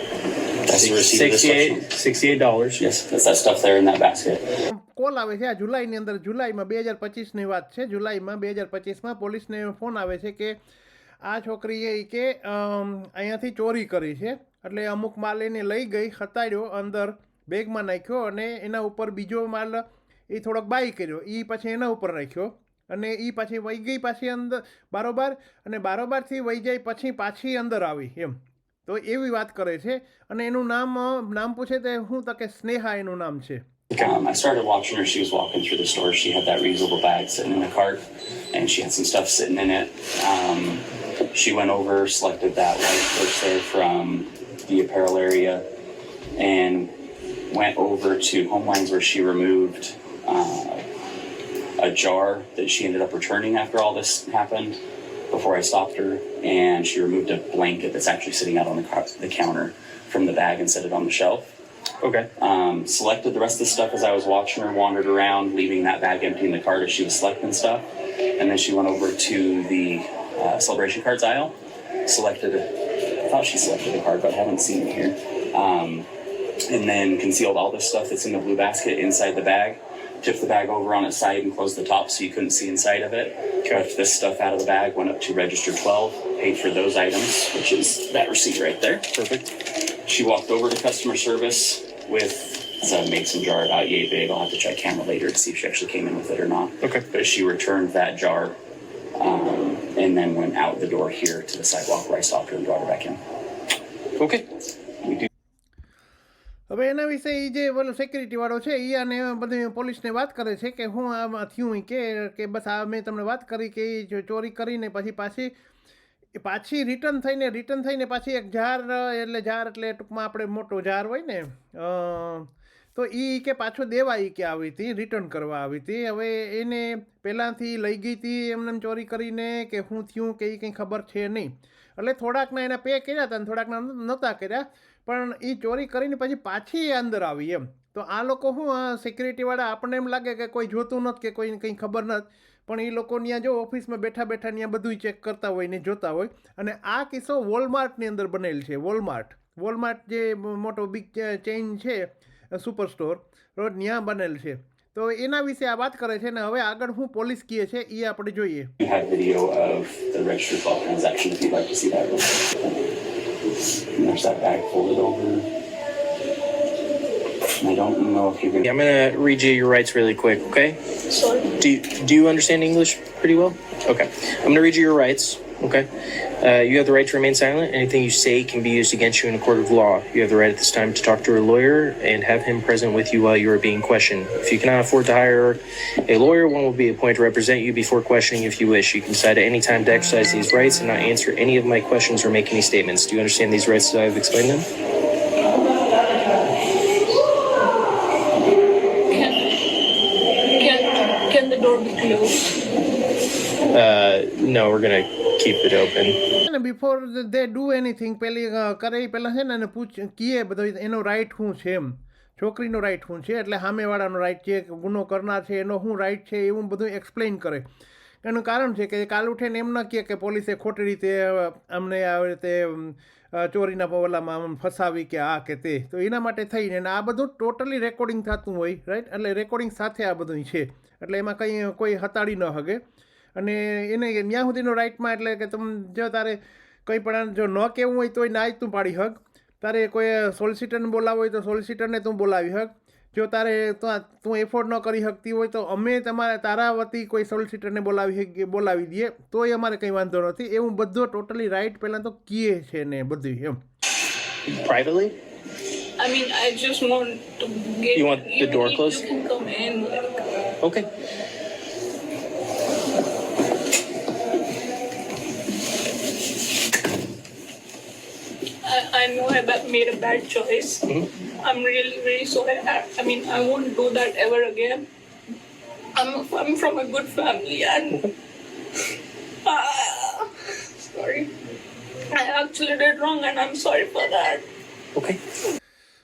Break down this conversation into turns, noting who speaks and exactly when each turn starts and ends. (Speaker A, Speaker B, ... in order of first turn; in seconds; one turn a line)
Speaker A: 0.7-1.8
Speaker B: 0.8-2.8
Speaker A: 2.8-4.4
Speaker C: 4.7-10.6
Speaker C: 11.2-33.6
Speaker A: 34.0-38.0
Speaker A: 38.5-45.6
Speaker A: 46.4-46.9
Speaker A: 47.5-50.8
Speaker A: 51.8-54.8
Speaker A: 55.3-61.5
Speaker B: 62.0-62.3
Speaker A: 62.4-67.9
Speaker A: 68.4-72.7
Speaker A: 73.3-76.1
Speaker A: 76.7-89.0
Speaker B: 89.1-89.5
Speaker A: 90.1-98.6
Speaker A: 99.2-103.2
Speaker B: 104.2-104.4
Speaker C: 106.7-115.5
Speaker C: 116.4-158.7
Speaker A: 158.8-162.5
Speaker A: 164.0-165.4
Speaker A: 167.6-168.7
Speaker B: 168.6-170.8
Speaker D: 171.1-171.5
Speaker B: 171.6-175.9
Speaker B: 176.4-194.7
Speaker D: 199.1-199.7
Speaker D: 200.5-202.5
Speaker B: 203.7-206.2
Speaker C: 206.4-217.7
Speaker C: 218.2-232.8
Speaker C: 233.4-253.6
Speaker B: 254.5-255.1
Speaker D: 256.0-260.3
Speaker B: 257.9-259.1
Speaker B: 260.6-260.9
Speaker D: 268.6-274.9
Speaker D: 276.0-278.1
Speaker D: 279.4-281.3
Speaker D: 282.1-284.4
Speaker B: 284.9-285.2